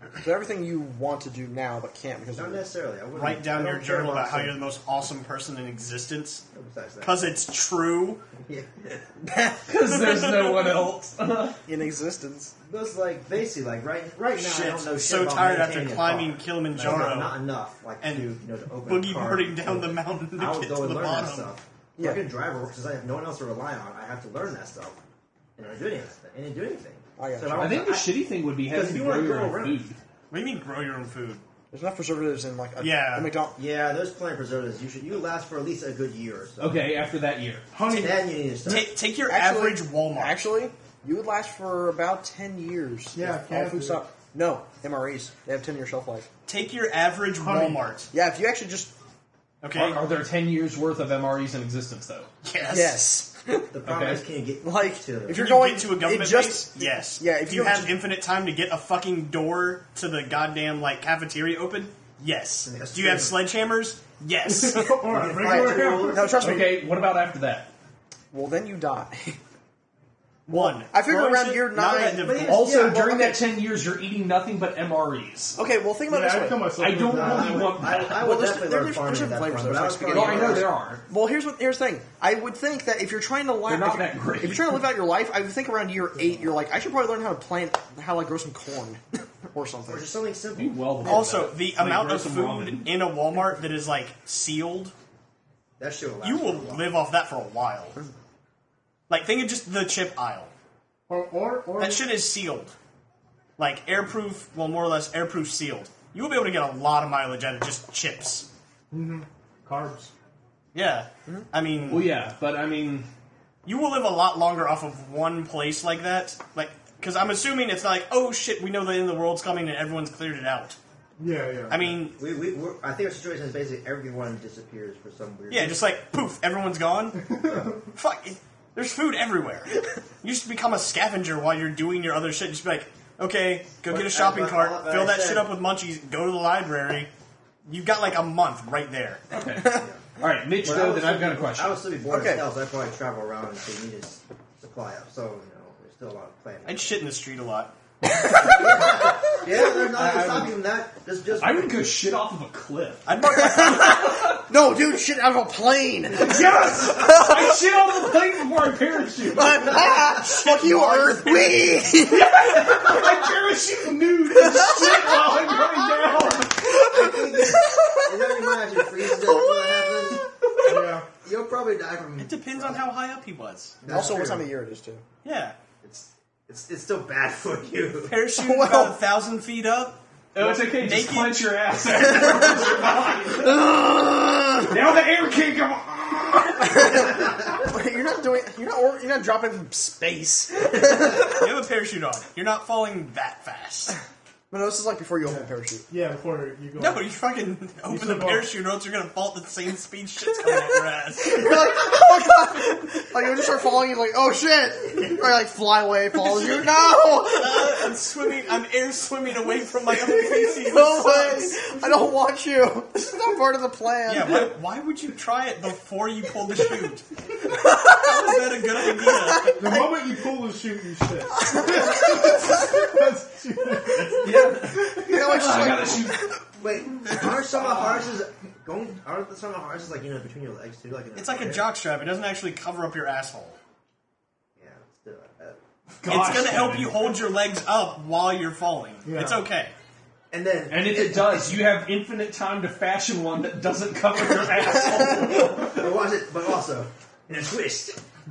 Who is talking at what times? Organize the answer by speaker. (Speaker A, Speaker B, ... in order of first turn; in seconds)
Speaker A: 0.2-2.6, 11.7-12.5, 22.0-22.3, 27.2-27.8, 31.7-33.6, 39.2-46.3, 48.1-48.9, 52.7-53.7, 54.6-58.0, 66.1-66.9, 68.3-69.4, 70.5-73.5, 75.5-76.8, 78.0-90.1, 139.5-139.9, 142.1-142.4, 148.0-150.4, 153.2-157.6, 159.3-162.6, 164.3-170.2, 173.8-175.0, 178.4-179.0, 183.4-184.9, 186.6-191.4, 194.5-195.8, 201.2-207.9, 209.8-214.5, 217.5-218.2, 219.1-219.8, 221.4-222.6, 224.7-226.4
Speaker B: 2.3-4.6, 6.5-7.4, 8.4-9.1, 12.7-25.0, 25.6-29.8, 33.5-36.9, 37.9-39.0, 53.7-55.5, 62.6-63.4, 65.1-66.6, 72.1-73.0, 77.1-81.0, 89.8-90.9, 95.8-96.9, 122.2-125.8, 133.9-135.6, 139.7-140.1, 140.6-147.0, 148.3-151.8, 166.7-170.3, 171.2-172.8, 173.8-174.5, 175.8-178.1, 226.6-231.7, 234.6-235.6, 240.3-241.7, 245.3-248.0
Speaker C: 3.1-6.4, 7.0-8.2, 9.9-10.7, 14.3-17.4, 18.0-18.3, 18.9-21.5, 30.3-31.4, 32.8-33.3, 38.6-40.4, 46.5-48.1, 49.6-50.0, 52.4-53.0, 55.3-65.2, 70.5-72.6, 91.0-94.9, 96.2-98.0, 99.1-100.5, 101.8-102.7, 103.6-108.5, 110.7-112.1, 113.7-120.8, 121.7-122.2, 125.5-127.2, 127.9-137.1, 137.7-139.2, 146.6-147.7, 153.0-154.3, 160.1-162.1, 172.2-173.7, 175.2-175.6, 178.0-181.6, 191.3-194.0, 196.8-201.7, 206.2-211.6, 214.1-217.1, 217.9-219.7, 231.2-233.6, 236.0-239.7
Speaker D: 9.7-11.6, 27.6-30.0, 36.6-37.6, 49.7-52.3, 53.8-54.2, 66.3-67.7, 72.4-75.6, 76.8-78.3, 80.1-81.0, 83.7-84.8, 90.5-92.9, 111.9-113.1, 139.3-141.8, 150.1-150.4, 151.4-153.1, 156.1-159.8, 162.1-166.7, 180.3-183.6, 184.6-187.0, 224.1-226.2, 236.0-237.0, 240.7-245.8
Speaker E: 37.7-38.2, 43.1-44.0, 47.4-47.9, 64.5-66.4, 76.1-77.7, 101.1-102.1, 108.9-110.1, 121.2-122.0, 127.3-127.8, 170.6-171.1, 195.2-197.1, 197.9-198.5, 219.6-224.7, 239.0-239.5